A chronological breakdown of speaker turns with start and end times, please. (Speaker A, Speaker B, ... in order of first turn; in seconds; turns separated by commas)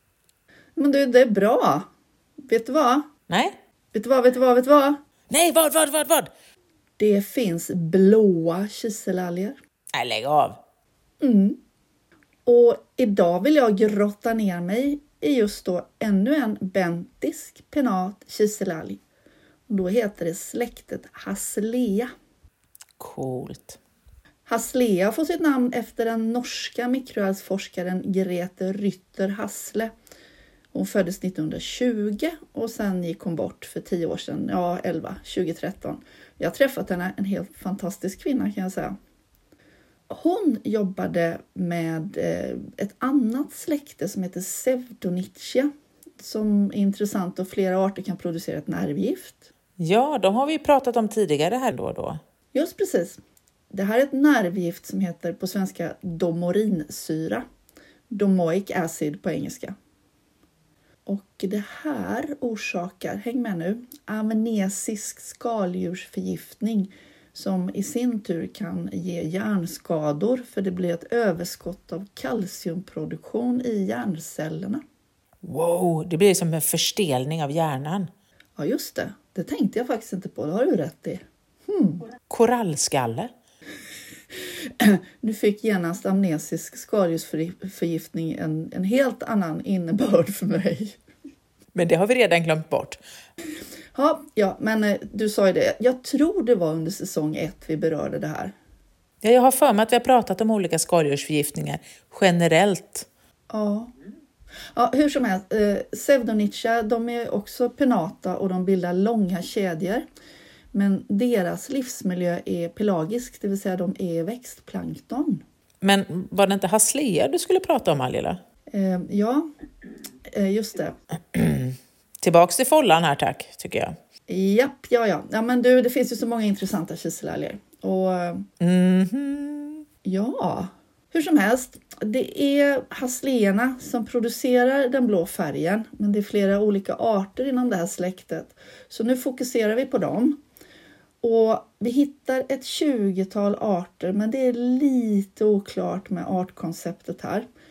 Speaker A: 0.8-1.9, Speaker A: 2.4-3.1, Speaker B: 3.3-3.5, Speaker A: 3.9-5.0, Speaker B: 5.3-6.3, Speaker A: 7.0-9.6, Speaker B: 9.9-10.6, Speaker A: 11.2-11.6, Speaker A: 12.4-19.0, Speaker A: 19.7-22.1, Speaker B: 23.0-23.8, Speaker A: 24.4-29.9, Speaker A: 30.7-39.0, Speaker A: 40.1-49.5, Speaker B: 49.8-52.2, Speaker A: 52.5-53.2, Speaker A: 53.7-57.4, Speaker A: 58.1-59.7, Speaker A: 61.0-74.8, Speaker B: 75.4-78.1, Speaker A: 78.5-82.0, Speaker B: 82.3-83.3, Speaker A: 84.8-91.0, Speaker B: 91.7-93.0, Speaker A: 93.9-98.5, Speaker B: 99.2-103.1, Speaker A: 103.5-103.9, Speaker A: 104.7-110.0, Speaker A: 110.7-115.4, Speaker B: 115.8-118.4, Speaker A: 118.7-119.5, Speaker A: 120.3-121.0, Speaker B: 121.3-123.9, Speaker A: 124.3-128.4, Speaker B: 128.6-129.8, Speaker A: 130.0-140.4, Speaker A: 141.2-147.4